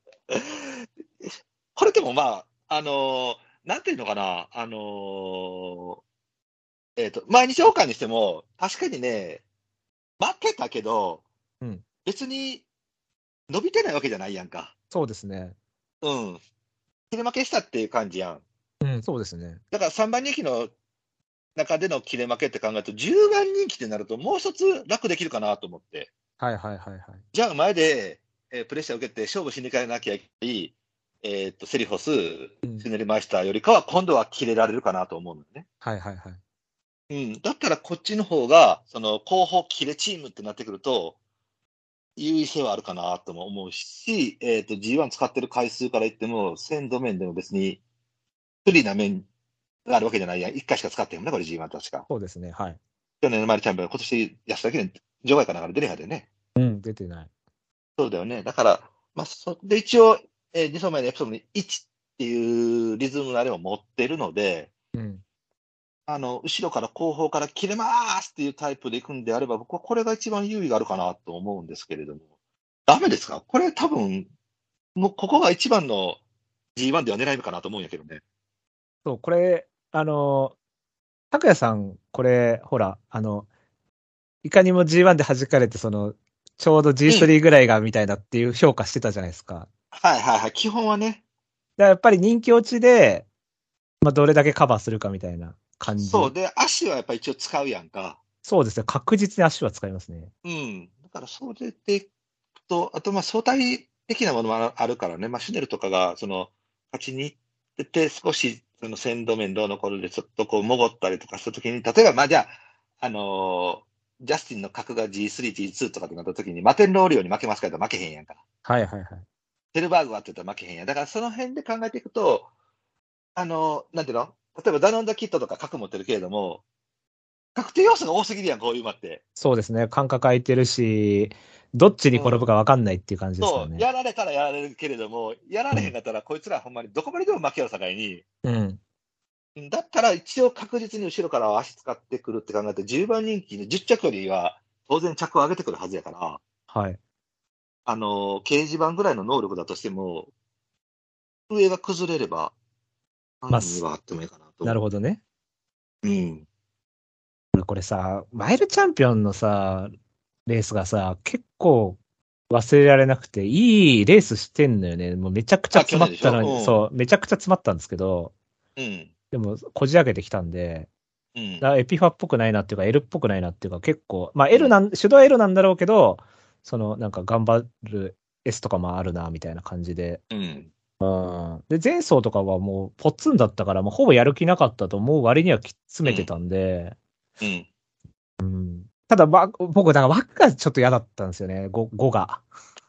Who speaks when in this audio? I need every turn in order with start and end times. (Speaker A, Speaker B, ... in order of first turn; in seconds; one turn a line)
Speaker A: 0.3-6.0
Speaker A: 7.0-9.4
Speaker A: 10.2-11.2
Speaker A: 12.1-12.6
Speaker A: 13.5-14.7
Speaker B: 14.9-15.6
Speaker A: 16.0-16.4
Speaker A: 17.1-18.4
Speaker B: 18.8-19.6
Speaker A: 19.7-20.7
Speaker A: 21.6-26.1
Speaker B: 26.4-27.2
Speaker A: 27.3-35.6
Speaker B: 35.8-36.4
Speaker A: 37.1-41.2
Speaker A: 42.2-47.8
Speaker A: 48.6-49.3
Speaker A: 49.9-52.1
Speaker B: 52.1-52.8
Speaker A: 53.2-56.3
Speaker B: 56.6-57.3
Speaker A: 58.0-64.7
Speaker B: 64.9-65.2
Speaker A: 66.1-72.2
Speaker A: 72.9-74.3
Speaker A: 75.0-76.2
Speaker A: 76.8-78.2
Speaker B: 79.0-80.5
Speaker B: 81.3-83.5
Speaker B: 84.4-89.7
Speaker A: 87.1-87.3
Speaker A: 89.9-91.2
Speaker B: 91.8-93.3
Speaker B: 94.0-96.3
Speaker A: 96.0-98.2
Speaker B: 98.4-100.3
Speaker A: 100.5-102.1
Speaker A: 102.7-118.4
Speaker B: 118.7-119.2
Speaker A: 119.7-122.5
Speaker A: 123.4-126.6
Speaker A: 127.5-129.2
Speaker B: 129.4-133.8
Speaker A: 132.1-132.4
Speaker A: 133.4-138.2
Speaker B: 138.4-138.8
Speaker A: 139.6-146.4
Speaker B: 146.7-147.0
Speaker A: 147.9-150.3
Speaker A: 151.5-152.5
Speaker A: 153.4-154.8
Speaker B: 153.5-153.8
Speaker B: 154.6-155.2
Speaker A: 156.0-156.4
Speaker B: 157.5-159.9
Speaker B: 160.5-162.0
Speaker B: 162.5-168.3
Speaker A: 165.7-166.8
Speaker A: 168.8-169.1
Speaker B: 169.3-170.9
Speaker A: 171.4-171.7
Speaker B: 171.6-180.2
Speaker A: 180.3-180.7
Speaker B: 181.0-187.0
Speaker A: 187.4-187.7
Speaker B: 188.4-192.4